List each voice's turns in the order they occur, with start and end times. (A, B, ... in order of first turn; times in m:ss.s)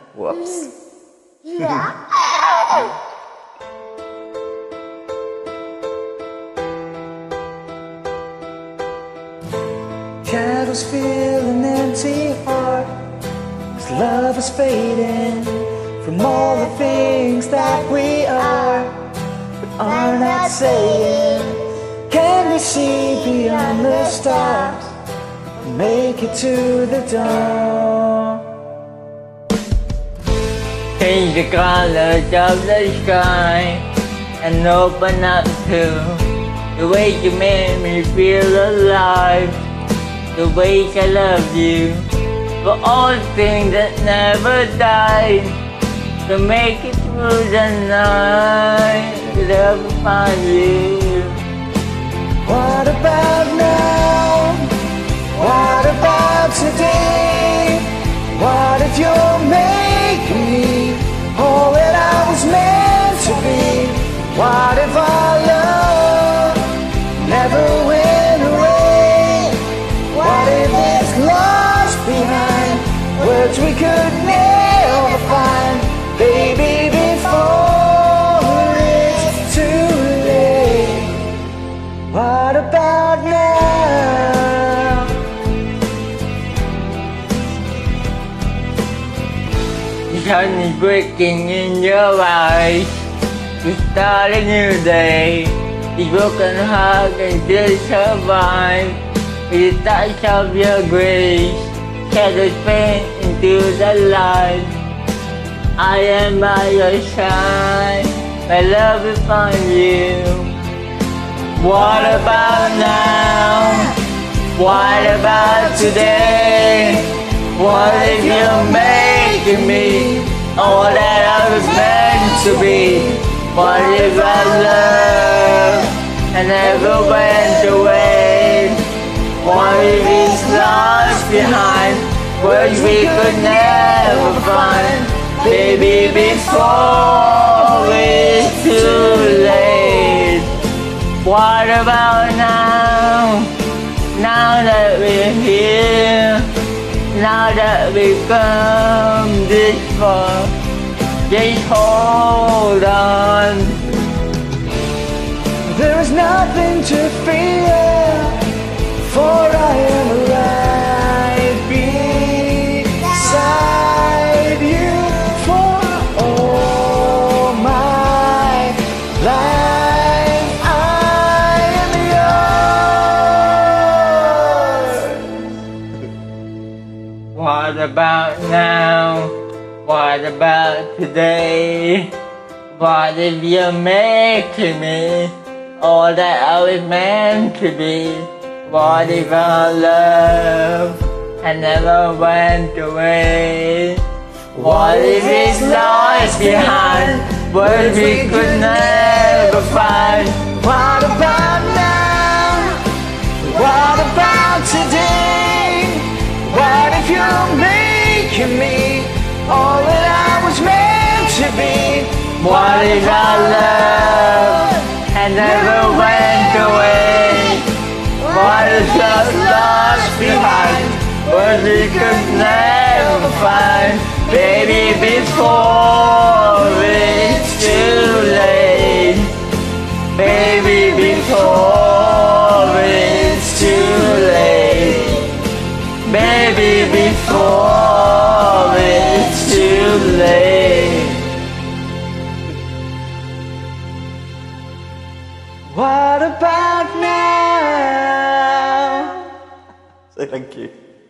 0:00.2-0:00.7 A
0:01.6-0:01.8 A
0:10.2-0:12.9 A
0:13.7-0:18.9 A
0:19.8-0:25.0 A
0:25.6-0:28.4 A
0:31.0-0:33.8 B
0:34.4-0:39.6 B
0:40.3-0:42.1 B
0:42.6-0:45.6 B
0:46.3-0:51.4 B
0:52.4-0:54.8 A
0:55.3-1:21.4 A
1:22.1-1:25.2 A
1:30.1-1:32.9 B
1:33.6-1:44.8 B
1:45.8-1:50.6 B
1:51.6-1:54.0 B
1:54.6-2:08.8 B
1:54.8-1:56.5 A
1:57.8-2:00.3 A
2:09.4-2:20.5 B
2:12.4-2:16.4 A
2:21.2-2:23.5 B
2:24.1-2:26.5 B
2:27.1-2:30.5 B
2:31.3-2:33.8 B
2:35.7-2:38.5 A
2:39.0-2:55.5 A
2:57.3-3:02.1 B
3:02.7-3:14.0 B
3:14.6-3:19.7 A
3:14.6-3:20.5 B
3:20.4-3:22.8 A
3:23.4-3:34.8 A
3:32.4-3:37.7 B
3:35.4-3:37.4 A
3:38.2-3:49.3 B
3:38.6-3:39.1 A
3:39.7-3:42.2 A
3:50.1-3:55.3 B
3:50.7-3:51.2 A
3:56.0-4:01.2 B
4:05.7-4:09.3 A
4:10.1-4:10.7 A